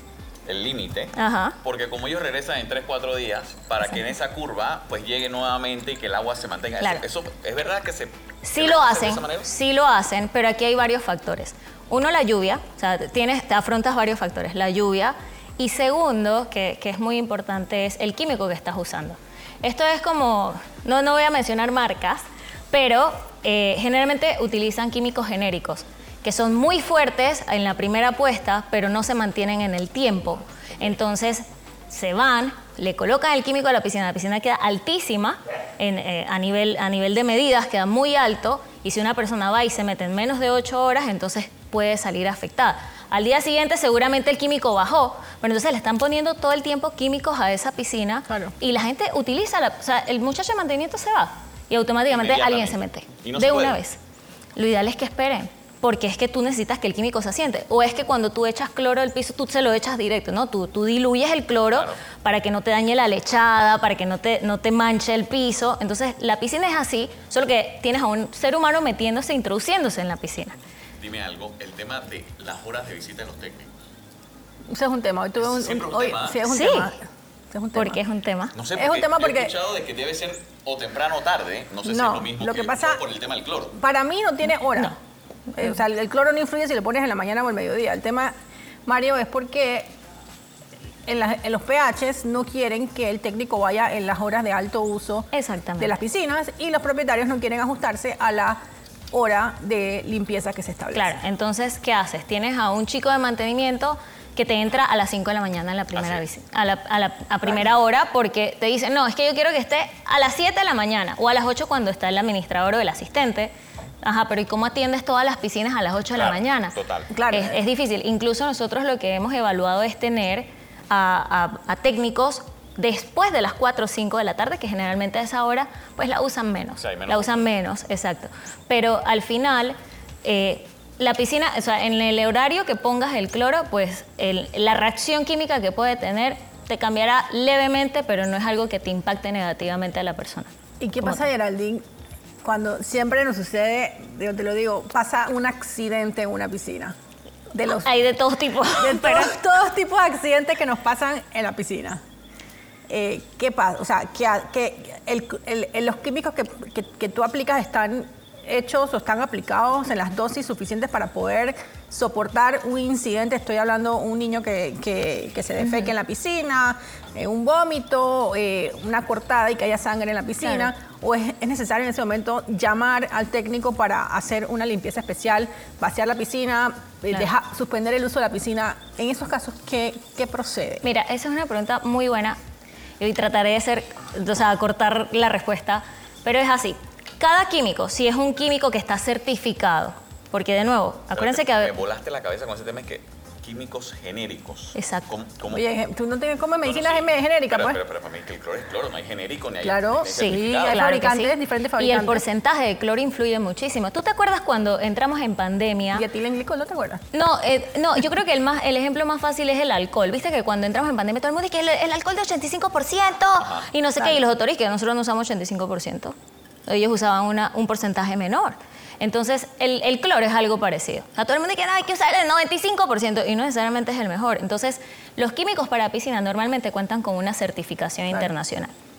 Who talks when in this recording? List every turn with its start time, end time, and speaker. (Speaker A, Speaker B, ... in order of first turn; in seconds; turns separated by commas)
Speaker A: 0.5-9.5, Speaker B: 1.2-1.6, Speaker B: 8.4-54.0, Speaker A: 52.1-53.8, Speaker B: 54.5-70.6, Speaker A: 61.7-62.0, Speaker A: 71.0-73.7, Speaker C: 74.7-78.0, Speaker A: 75.4-76.5, Speaker B: 76.5-76.9, Speaker B: 77.7-78.5, Speaker A: 78.5-83.8, Speaker C: 78.8-79.5, Speaker C: 81.8-83.0, Speaker C: 83.8-84.9, Speaker C: 85.6-88.3, Speaker C: 88.9-89.9, Speaker C: 91.1-98.6, Speaker B: 95.3-96.0, Speaker C: 99.1-101.1, Speaker B: 100.9-116.8, Speaker A: 106.0-106.2, Speaker A: 116.2-117.1, Speaker C: 117.1-117.6, Speaker B: 117.3-140.5, Speaker A: 126.8-127.5, Speaker C: 140.8-141.8, Speaker B: 141.0-141.3, Speaker C: 142.4-146.9, Speaker C: 147.5-147.9, Speaker B: 147.8-149.4, Speaker C: 148.8-152.0, Speaker C: 152.9-180.8, Speaker B: 170.4-170.7, Speaker B: 180.8-182.4, Speaker B: 183.0-191.7, Speaker A: 191.1-195.7, Speaker B: 194.8-195.1, Speaker C: 195.5-197.8, Speaker A: 196.6-200.9, Speaker C: 199.6-202.2, Speaker B: 200.2-206.1, Speaker C: 205.9-207.0, Speaker B: 207.1-216.2, Speaker A: 213.4-213.7, Speaker B: 216.7-228.7